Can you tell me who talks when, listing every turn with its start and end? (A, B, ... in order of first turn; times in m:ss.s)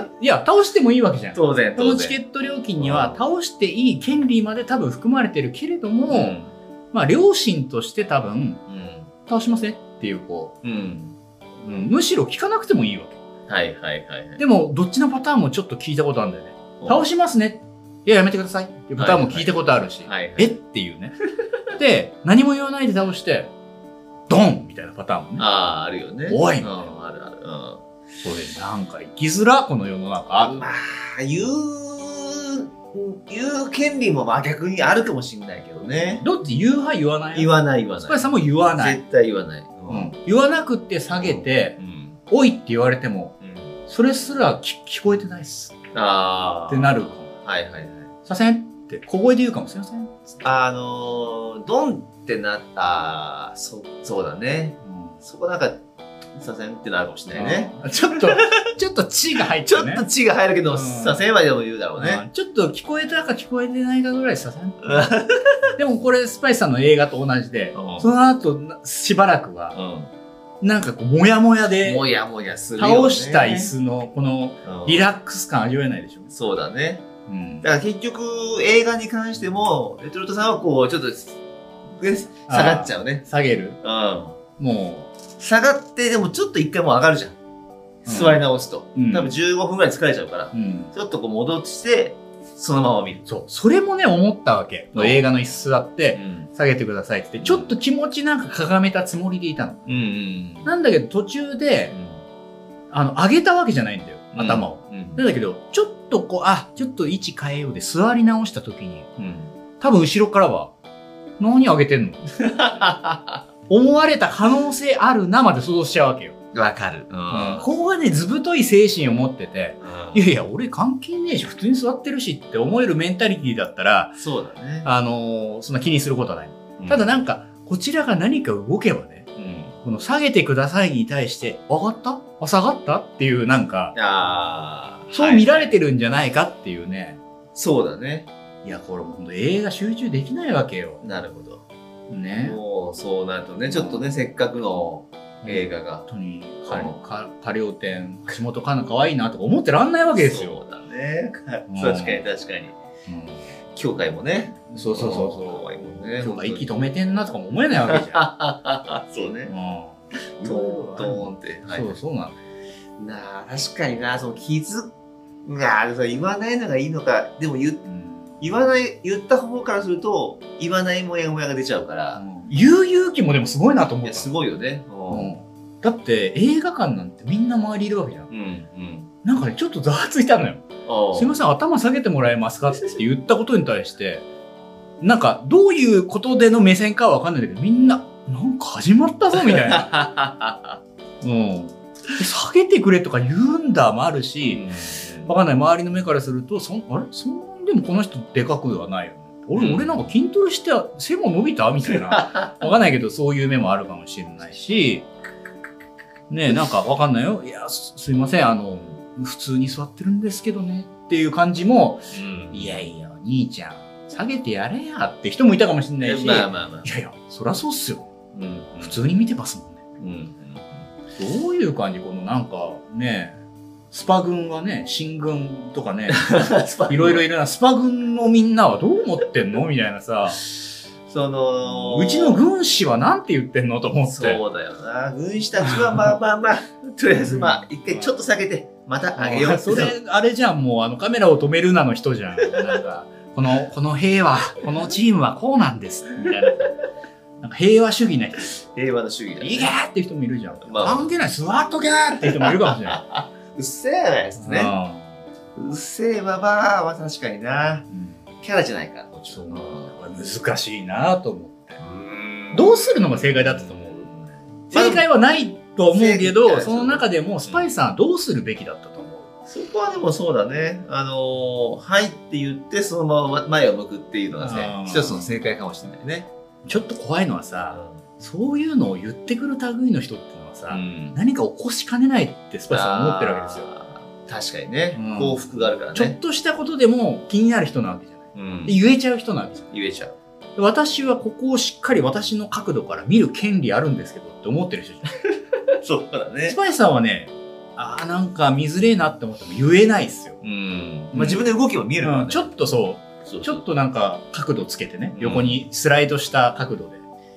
0:00.2-0:06.4 A
0:01.3-0:02.2 B
0:02.8-0:03.2 B
0:06.1-0:06.5 B
0:06.9-0:08.6 A
0:08.7-0:09.1 B
0:09.3-0:10.6 A
0:10.6-0:11.2 B
0:11.6-0:13.2 A
0:13.5-0:14.4 B
0:14.4-0:21.1 A
0:16.8-0:17.1 B
0:19.0-0:20.5 B
0:21.7-0:23.5 A
0:24.3-0:25.5 A
0:25.4-0:27.8 B
0:26.3-0:26.8 A
0:28.2-0:30.7 A
0:30.4-0:36.2 B
0:36.2-0:39.0 A
0:37.3-0:40.1 B
0:39.9-0:41.8 A
0:41.1-0:42.2 B
0:42.3-0:43.3 A
0:43.4-0:43.7 B
0:43.9-0:45.8 A
0:45.9-0:48.1 B
0:46.7-0:47.3 A
0:48.2-0:50.4 A
0:50.4-0:55.8 B
0:54.8-0:55.2 A
0:56.4-0:58.5 B
0:57.3-1:00.0 A
0:59.6-1:02.2 B
1:00.7-1:01.2 A
1:02.0-1:05.2 A
1:04.8-1:05.5 B
1:05.8-1:09.8 A
1:07.7-1:08.1 B
1:09.7-1:10.1 B
1:10.6-1:12.0 A
1:11.8-1:13.7 B
1:12.8-1:16.3 A
1:14.6-1:15.1 B
1:16.3-1:17.0 B
1:17.3-1:17.6 A
1:17.6-1:21.4 B
1:22.0-1:23.2 B
1:22.5-1:23.8 A
1:23.8-1:24.4 B
1:24.6-1:25.1 A
1:25.4-1:27.4 B
1:28.0-1:33.3 B
1:28.0-1:28.4 A
1:29.0-1:29.4 A
1:30.5-1:30.9 A
1:33.2-1:39.9 A
1:34.9-1:35.2 B
1:36.1-1:36.5 B
1:37.4-1:37.7 B
1:39.8-1:40.7 B
1:40.6-1:41.9 A
1:41.9-1:42.2 B
1:42.9-1:49.1 A
1:44.3-1:45.2 B
1:49.2-1:49.5 B
1:49.8-1:50.7 A
1:51.4-1:52.4 A
1:52.4-1:53.4 B
1:53.7-1:56.4 A
1:56.5-1:57.7 B
1:57.3-2:04.2 A
1:59.8-2:00.3 B
2:04.2-2:04.9 B
2:04.8-2:09.3 A
2:06.8-2:07.2 B
2:09.4-2:09.7 B
2:09.8-2:13.9 A
2:13.9-2:15.8 B
2:15.1-2:17.2 A
2:17.5-2:18.3 B
2:18.6-2:21.0 A
2:21.0-2:21.6 B
2:22.1-2:22.6 A
2:22.4-2:26.1 B
2:23.7-2:24.2 A
2:25.4-2:30.6 A
2:26.6-2:27.0 B
2:30.1-2:32.8 B
2:31.7-2:32.2 A
2:33.1-2:33.4 A
2:33.7-2:36.7 B
2:34.7-2:38.2 A
2:37.8-2:39.5 B
2:39.5-2:42.4 A
2:40.4-2:41.9 B
2:43.0-2:44.9 B
2:45.4-2:47.8 B
2:47.8-2:48.4 A
2:48.4-2:52.2 B
2:52.1-2:54.3 A
2:54.0-2:55.3 B
2:55.1-2:58.3 A
2:58.3-2:59.1 B
2:59.2-3:04.2 A
3:00.8-3:01.4 B
3:05.0-3:09.9 A
3:09.4-3:10.8 B
3:11.2-3:14.6 A
3:14.5-3:15.4 B
3:15.2-3:25.1 A
3:19.5-3:20.0 B
3:21.8-3:22.6 B
3:26.3-3:38.1 A
3:32.1-3:32.8 B
3:36.0-3:36.9 B
3:38.3-3:39.0 B
3:38.8-3:39.8 A
3:40.0-3:40.9 B
3:41.2-3:43.4 A
3:43.9-3:50.4 A
3:46.1-3:47.2 B
3:51.1-3:52.4 B
3:51.6-3:54.4 A
3:54.0-4:00.0 B
3:55.6-3:56.1 A
3:57.1-3:58.2 A
3:59.2-4:06.7 A
4:07.4-4:08.6 A
4:08.7-4:09.7 B
4:09.4-4:13.0 A
4:10.6-4:11.2 B
4:12.5-4:14.7 B
4:14.4-4:15.2 A
4:15.6-4:17.9 B
4:17.9-4:18.2 A
4:18.4-4:19.9 B
4:19.3-4:21.8 A
4:21.8-4:25.1 B
4:22.5-4:24.1 A
4:24.7-4:29.3 A
4:25.9-4:27.7 B
4:29.5-4:36.3 B
4:34.4-4:35.3 A
4:36.6-4:43.7 A
4:37.7-4:38.0 B
4:40.7-4:41.2 B
4:42.7-4:46.2 B
4:44.9-4:49.7 A
4:48.3-4:48.8 B
4:49.7-4:50.1 B
4:50.6-4:55.1 A
4:55.8-4:56.6 B
4:56.4-5:00.4 A
5:00.4-5:02.5 B
5:01.1-5:01.5 A
5:02.0-5:07.0 A
5:03.2-5:03.6 B
5:05.1-5:05.6 B